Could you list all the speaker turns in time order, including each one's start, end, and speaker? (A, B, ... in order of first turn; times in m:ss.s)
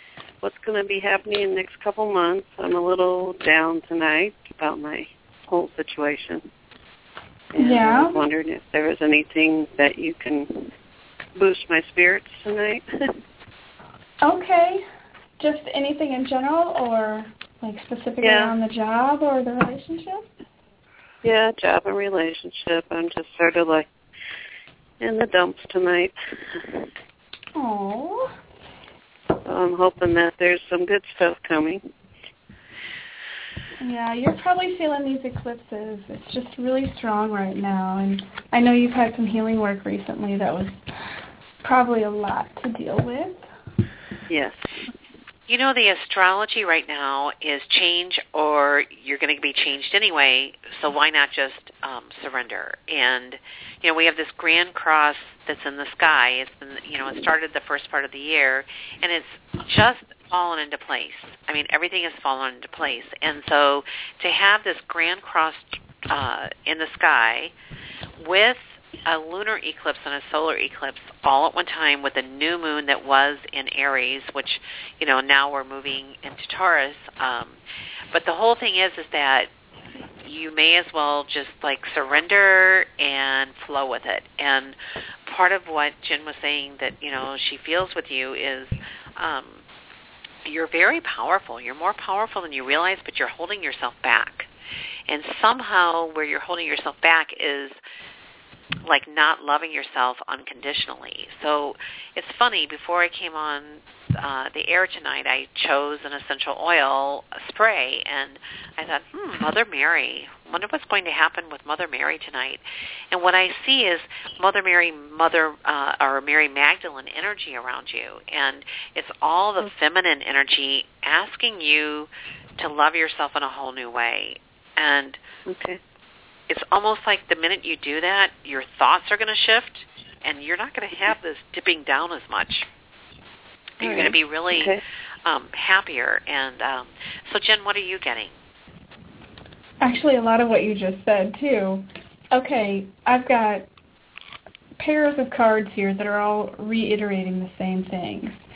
0:00.4-0:06.4 A
0:07.5-0:10.7 A
0:07.6-0:08.2 B
0:11.4-0:13.1 A
0:14.2-0:14.8 B
0:15.4-0:20.3 B
0:18.2-0:18.6 A
0:21.2-0:23.9 A
0:25.0-0:26.8 A
0:27.6-0:28.3 B
0:29.4-0:31.8 A
0:33.8-0:40.8 B
0:41.6-0:43.4 B
0:44.3-0:44.9 A
0:45.5-1:07.5 C
1:08.2-1:17.6 C
1:18.1-1:19.5 C
1:20.2-1:29.6 C
1:30.4-1:34.5 C
1:35.1-1:37.8 C
1:38.8-2:05.2 C
2:05.5-2:05.8 A
2:06.5-2:12.7 C
2:13.8-2:14.8 A
2:13.8-2:18.4 C
2:19.8-2:23.7 B
2:24.8-2:28.4 B